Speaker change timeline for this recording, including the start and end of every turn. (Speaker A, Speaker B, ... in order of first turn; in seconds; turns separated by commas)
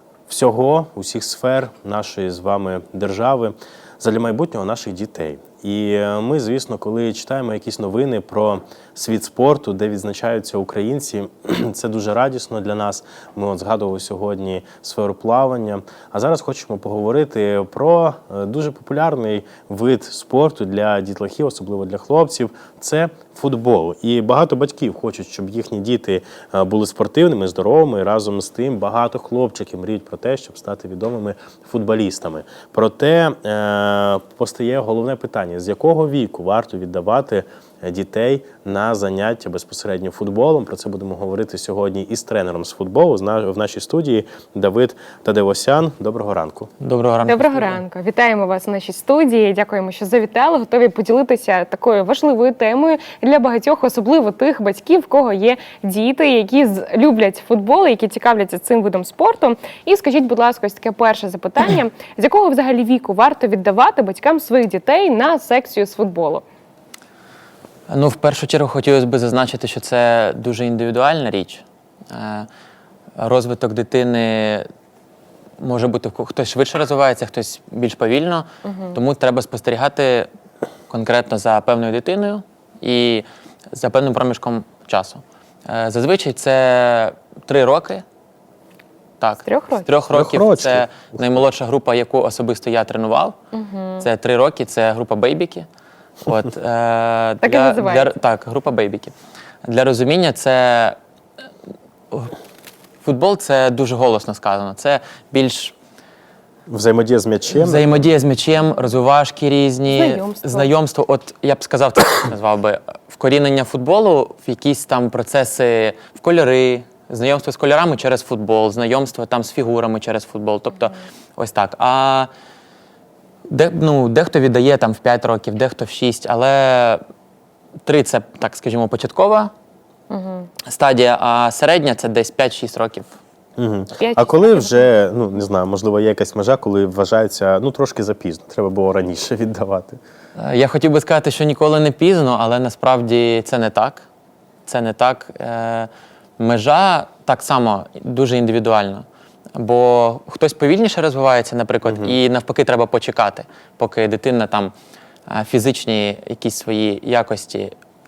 Speaker A: 0.3-46.7, Speaker B: 46.8-47.8, Speaker C: 47.3-66.4, Speaker B: 67.9-72.5, Speaker B: 73.2-74.7, Speaker B: 75.6-80.3, Speaker B: 80.9-88.0, Speaker B: 89.2-93.4, Speaker C: 89.5-89.9, Speaker A: 90.1-91.1, Speaker C: 93.5-94.0, Speaker B: 94.0-95.7, Speaker B: 96.2-99.1, Speaker C: 97.4-98.1, Speaker B: 99.7-101.0, Speaker B: 103.0-105.7, Speaker A: 106.7-107.8, Speaker B: 107.5-122.3, Speaker C: 109.9-110.7, Speaker B: 123.5-127.0, Speaker B: 127.8-129.5, Speaker C: 130.1-130.5, Speaker B: 130.7-133.1, Speaker A: 133.6-140.0, Speaker C: 134.0-134.8, Speaker B: 140.4-144.1, Speaker B: 144.7-149.1, Speaker B: 149.6-154.7, Speaker A: 151.8-152.2, Speaker B: 155.3-157.7